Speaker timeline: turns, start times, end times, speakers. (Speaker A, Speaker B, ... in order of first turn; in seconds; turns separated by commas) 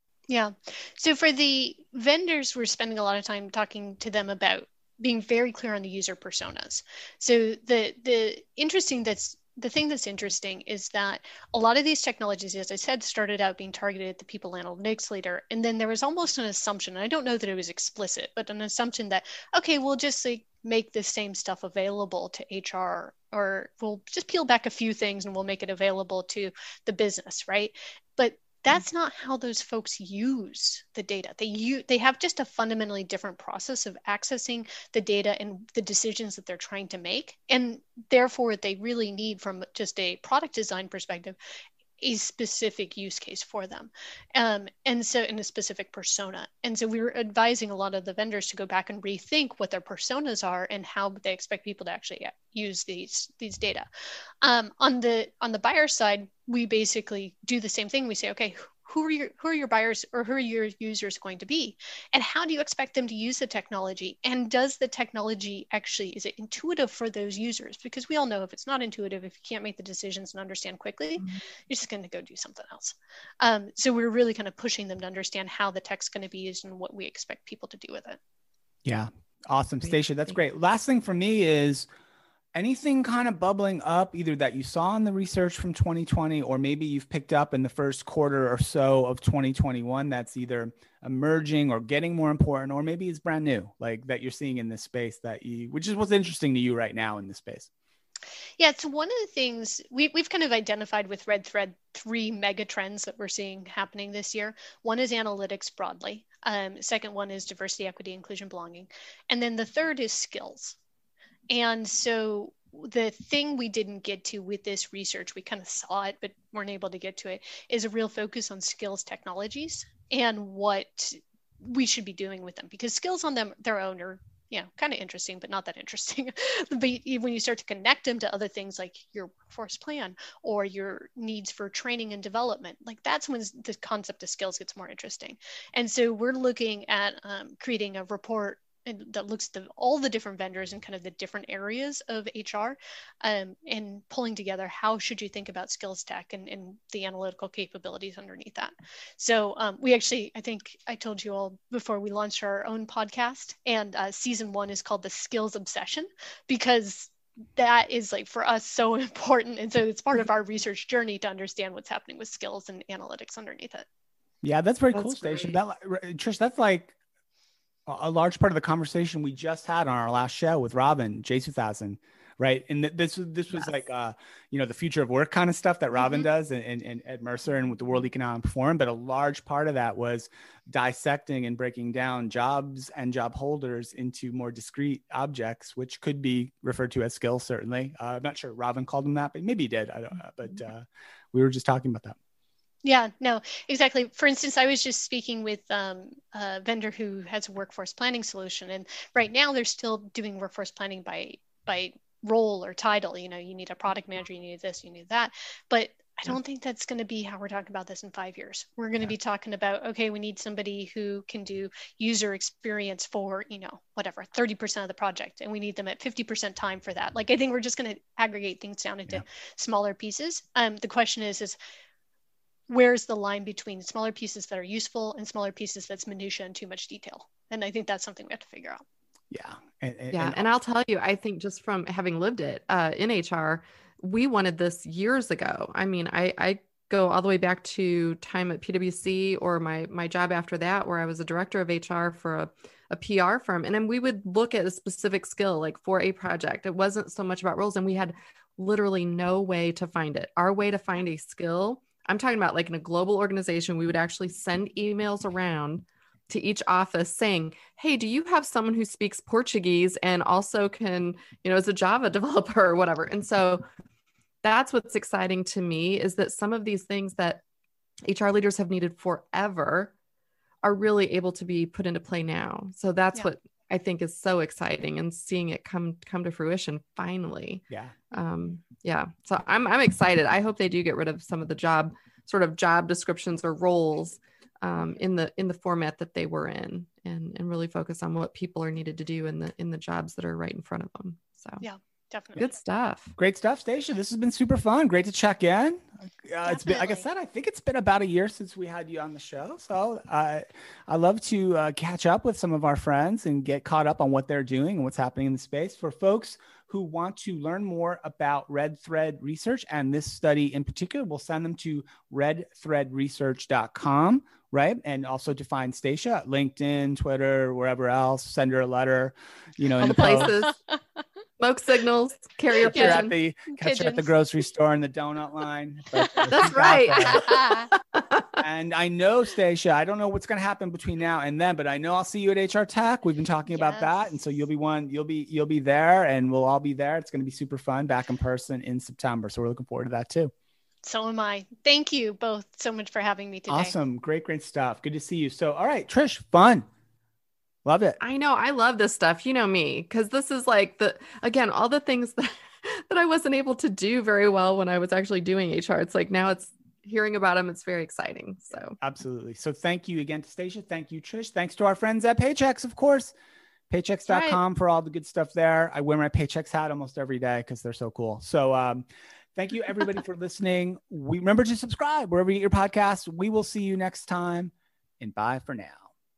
Speaker A: 0.3-41.4, Speaker A: 42.0-53.9, Speaker A: 54.4-78.2, Speaker B: 78.8-81.9, Speaker B: 82.5-97.7, Speaker A: 98.6-110.8, Speaker A: 111.5-163.8, Speaker B: 164.4-166.9, Speaker C: 164.9-165.6, Speaker B: 167.9-192.2, Speaker A: 192.8-221.6, Speaker A: 222.7-228.8, Speaker B: 229.3-230.4, Speaker C: 230.1-263.6, Speaker C: 264.4-267.4, Speaker C: 268.0-269.9, Speaker C: 270.6-291.6, Speaker B: 277.7-277.9, Speaker A: 291.6-292.5, Speaker C: 292.4-293.1, Speaker B: 293.2-320.4, Speaker A: 296.4-297.1, Speaker C: 319.8-320.6, Speaker C: 321.4-323.1, Speaker B: 322.6-327.3, Speaker A: 322.7-324.1, Speaker C: 326.2-328.2, Speaker A: 327.0-327.7, Speaker B: 328.4-340.3, Speaker A: 333.5-333.9, Speaker A: 340.8-343.7, Speaker B: 343.5-346.6, Speaker B: 347.6-348.0, Speaker C: 348.0-358.8, Speaker B: 358.8-363.1, Speaker B: 363.7-375.8, Speaker A: 364.1-364.4